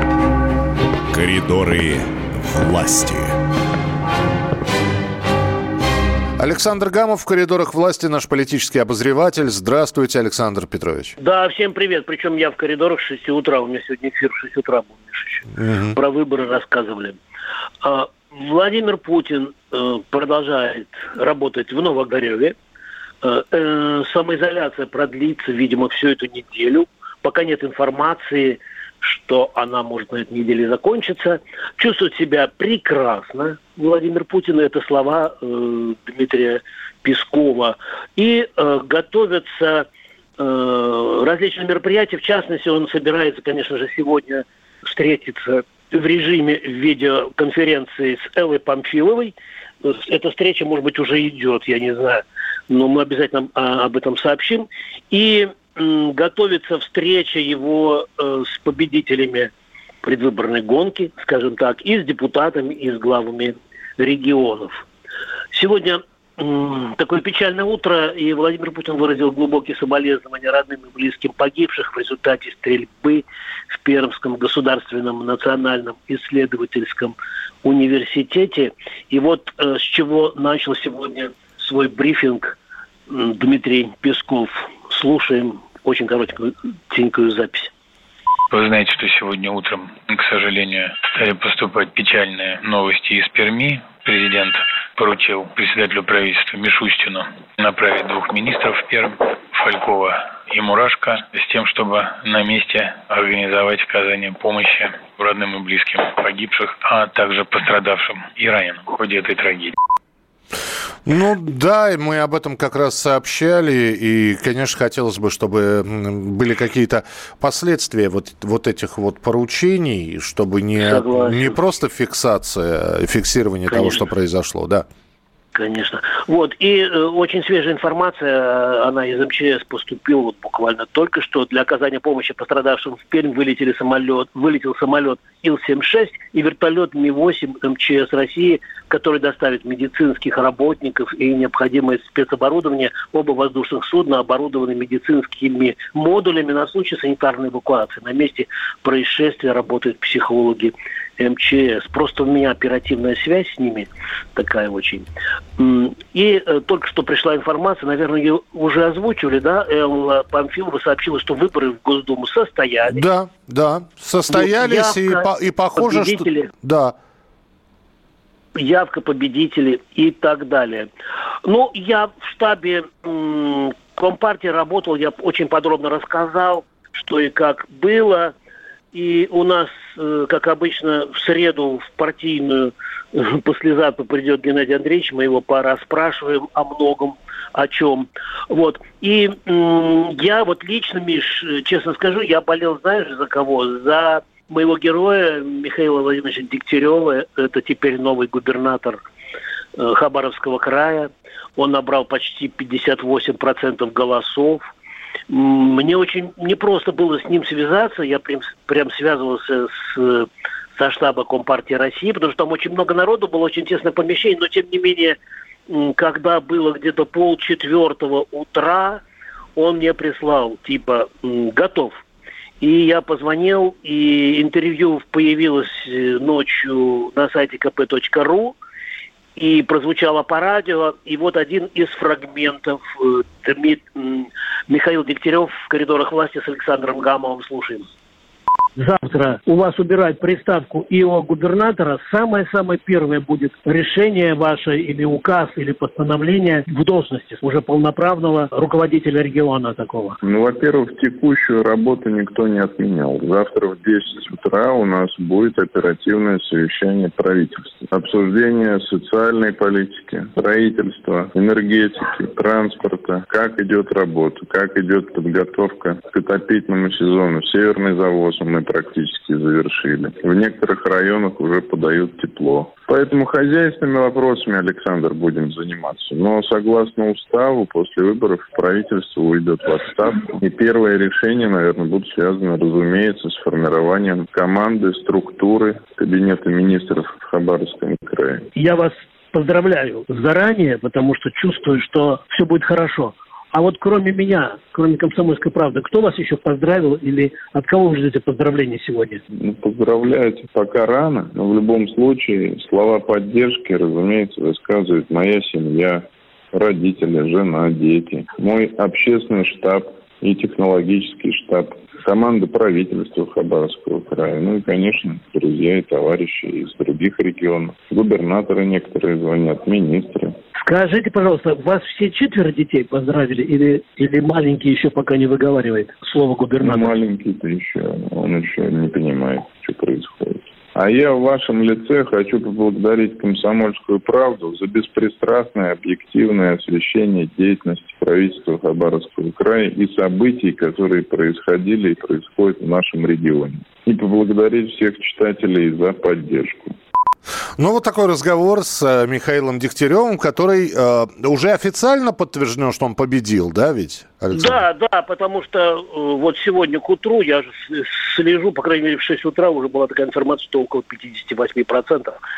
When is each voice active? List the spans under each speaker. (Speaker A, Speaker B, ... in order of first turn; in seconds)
Speaker A: 1.1-3.3
Speaker B: 6.4-11.1, 15.6-15.9, 111.0-124.8, 162.9-166.9, 347.6-354.6
Speaker C: 11.2-17.2, 17.8-22.5, 23.2-39.9, 40.4-59.5, 60.0-64.8, 65.5-82.6, 83.1-87.7, 120.8-121.6, 123.7-124.0, 125.5-155.1, 155.6-163.0, 164.3-166.5, 168.5-170.9, 171.4-178.3, 178.9-199.0, 199.8-204.6, 205.3-219.0, 219.6-222.0, 222.6-228.6, 229.3-237.8, 238.8-250.2, 288.6-299.2, 320.6-326.9, 354.3-362.2
Speaker D: 88.5-109.7
Speaker E: 250.2-288.4, 299.4-320.3, 326.6-346.7